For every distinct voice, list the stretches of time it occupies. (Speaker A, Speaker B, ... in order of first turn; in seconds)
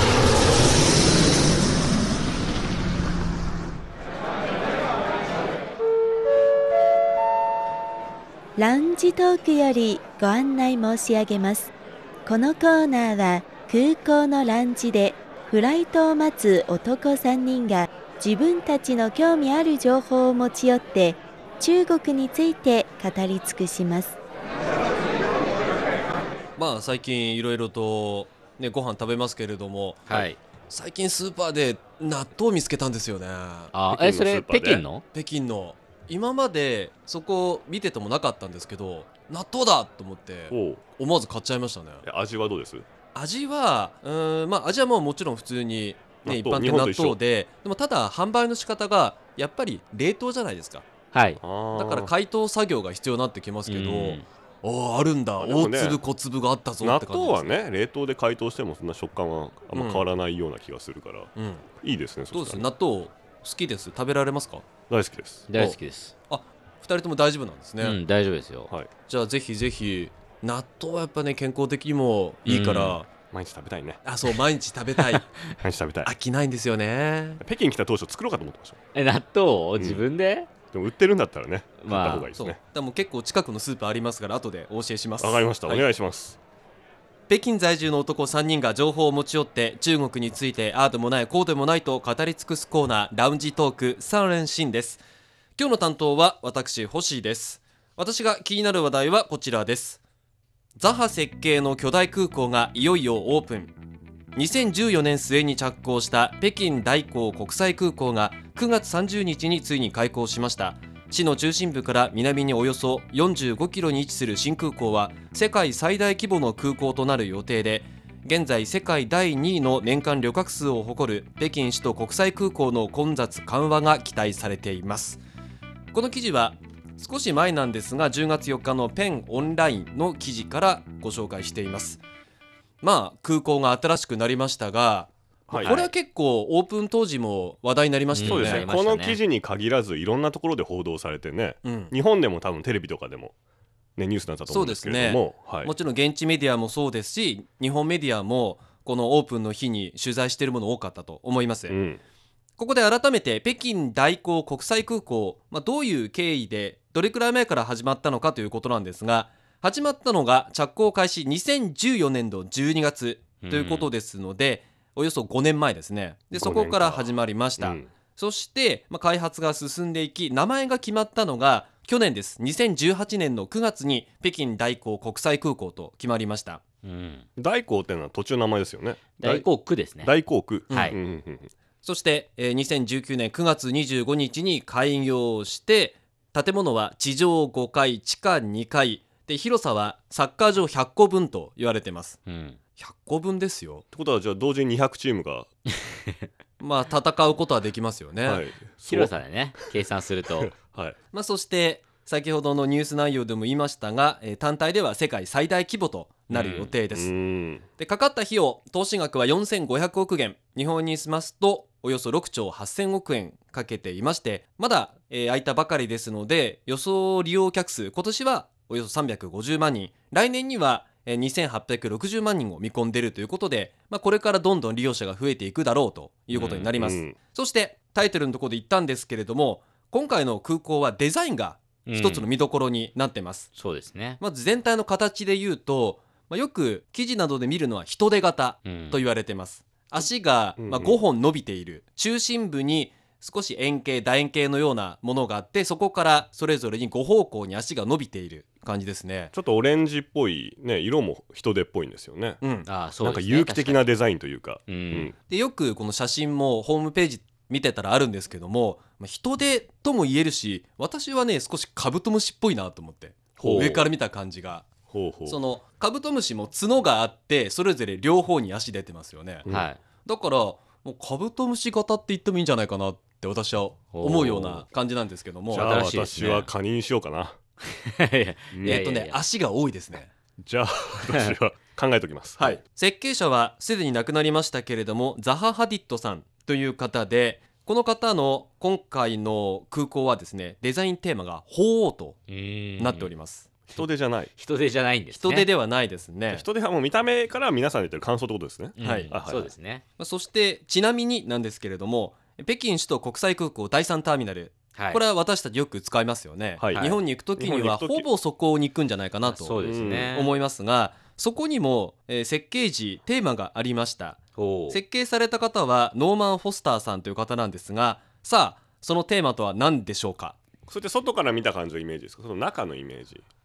Speaker A: 8.6-11.7, 12.2-24.2
Speaker B: 26.6-33.7, 35.1-42.0, 43.1-50.9, 51.7-57.5, 59.7-60.1, 61.4-61.6, 62.3-64.6, 66.3-68.0, 69.1-73.1, 74.0-75.2, 76.0-77.4, 82.3-85.8, 87.3-95.0, 95.6-100.0, 100.8-103.8, 104.3-125.2, 125.9-132.0, 132.8-138.7, 141.6-141.9, 144.5-151.8, 152.6-176.6, 180.7-180.9, 181.8-192.2, 192.8-193.8, 196.6-198.4, 201.1-207.1, 207.8-233.5, 234.2-249.3, 252.4-252.7, 255.3-264.7, 265.2-269.4, 270.0-275.8, 278.6-280.1, 282.4-292.2, 292.8-293.5, 295.1-296.4, 298.8-299.1, 300.0-314.2, 314.7-320.4
Speaker C: 30.1-30.4, 33.7-35.0, 51.1-51.4, 53.6-54.2, 65.5-66.1, 67.8-68.7, 72.5-73.0, 78.9-80.5, 81.8-82.3, 135.5-135.9, 138.1-139.2, 163.4-163.9, 176.8-177.2, 179.2-180.1, 180.7-180.9, 192.3-192.6, 198.9-200.5, 206.3-206.7, 226.3-226.7, 231.8-232.3, 233.6-234.2, 238.6-239.0, 252.7-253.9, 254.7-255.1, 269.5-269.8, 273.9-274.4, 275.5-276.5, 277.8-279.2, 292.3-293.1, 294.3-295.5, 298.8-299.8, 304.8-305.0, 306.7-307.0, 309.2-310.3, 314.4-314.8
Speaker D: 33.9-34.8, 40.5-40.8, 42.0-42.9, 46.2-47.2, 51.4-52.1, 55.4-56.0, 56.8-62.6, 64.9-65.8, 73.3-74.0, 75.6-76.1, 77.4-78.8, 79.8-80.0, 80.7-82.6, 85.2-86.4, 135.5-135.8, 138.2-143.3, 144.0-145.7, 151.7-152.0, 166.3-167.9, 177.4-181.5, 193.9-195.5, 198.2-199.1, 200.5-200.9, 206.3-207.6, 226.8-227.2, 240.6-241.0, 249.3-252.4, 253.0-255.1, 263.4-263.9, 264.9-265.4, 274.2-274.6, 275.5-277.4, 278.5-278.8, 280.4-282.6, 293.7-294.3, 296.3-299.5, 306.6-308.1, 309.6-310.1, 320.7-323.2